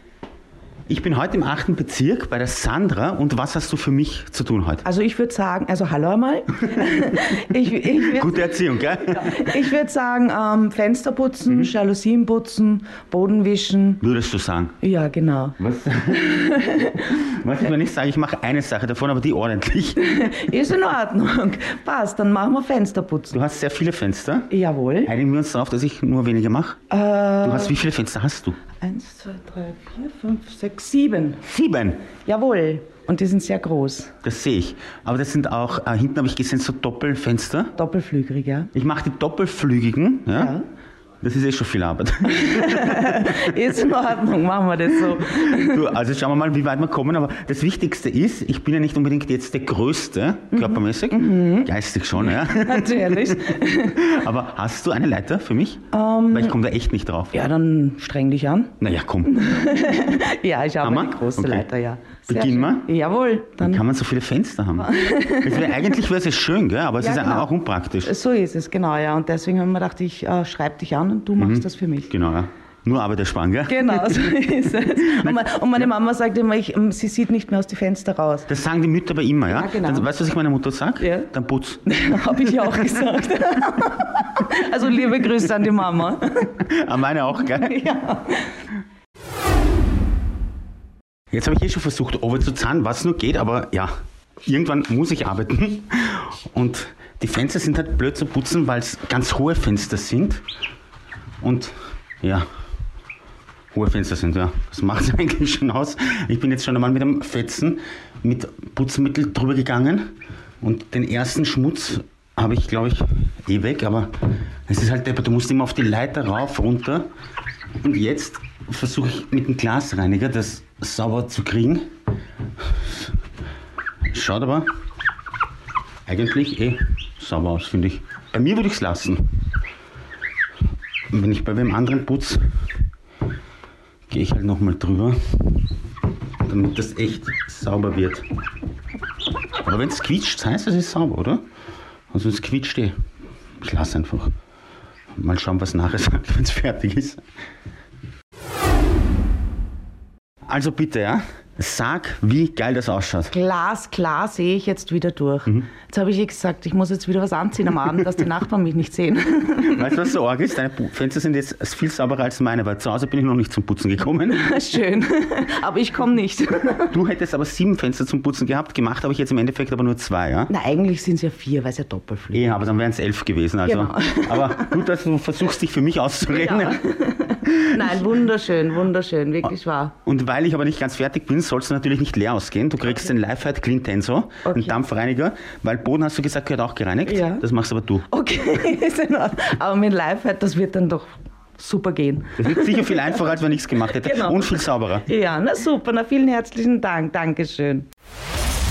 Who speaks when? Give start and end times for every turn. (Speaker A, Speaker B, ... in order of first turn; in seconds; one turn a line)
Speaker A: 0.9-4.8
Speaker B: 4.8-14.0
Speaker A: 8.0-9.6
Speaker A: 14.0-14.8
Speaker B: 14.8-15.6
Speaker A: 15.6-20.0
Speaker B: 16.1-17.1
Speaker B: 20.0-23.3
Speaker A: 23.3-24.5
Speaker B: 24.5-25.1
Speaker A: 25.0-26.8
Speaker B: 26.9-27.8
Speaker A: 27.4-28.6
Speaker B: 28.8-31.4
Speaker A: 31.4-32.0
Speaker B: 32.2-34.1
Speaker A: 34.2-37.7
Speaker B: 37.8-38.7
Speaker A: 38.7-40.5
Speaker B: 40.3-40.6
Speaker A: 41.2-43.5
Speaker B: 42.3-45.9
Speaker A: 45.0-57.5
Speaker B: 50.5-51.7
Speaker B: 52.2-54.0
Speaker B: 55.9-56.6
Speaker B: 57.3-63.8
Speaker A: 58.8-59.3
Speaker A: 60.8-61.7
Speaker A: 62.3-62.9
Speaker A: 63.6-68.1
Speaker B: 64.8-65.9
Speaker B: 67.0-67.5
Speaker B: 68.0-72.1
Speaker A: 71.4-75.4
Speaker B: 73.7-78.5
Speaker A: 78.5-81.8
Speaker B: 79.5-80.1
Speaker B: 81.0-81.3
Speaker B: 81.8-86.6
Speaker A: 82.4-82.8
Speaker A: 86.6-87.8
Speaker B: 87.4-88.6
Speaker A: 91.3-93.9
Speaker A: 94.4-100.4
Speaker A: 101.4-102.4
Speaker A: 103.7-117.1
Speaker A: 117.8-121.8
Speaker A: 122.6-123.1
Speaker A: 124.1-124.7
Speaker A: 126.0-129.3
Speaker A: 131.1-132.4
Speaker A: 134.1-135.3
Speaker A: 136.4-138.2
Speaker A: 139.6-141.4
Speaker A: 142.1-142.9
Speaker A: 143.6-144.3
Speaker A: 145.2-147.2
Speaker A: 150.4-153.3
Speaker B: 153.3-159.9
Speaker A: 159.6-164.5
Speaker B: 164.3-166.9
Speaker A: 166.9-170.5
Speaker B: 170.5-172.5
Speaker A: 172.3-176.8
Speaker B: 173.6-174.8
Speaker B: 176.3-179.9
Speaker A: 177.4-178.1
Speaker A: 180.0-188.0
Speaker B: 184.4-184.8
Speaker B: 187.0-187.4
Speaker B: 188.1-197.9
Speaker A: 192.4-195.1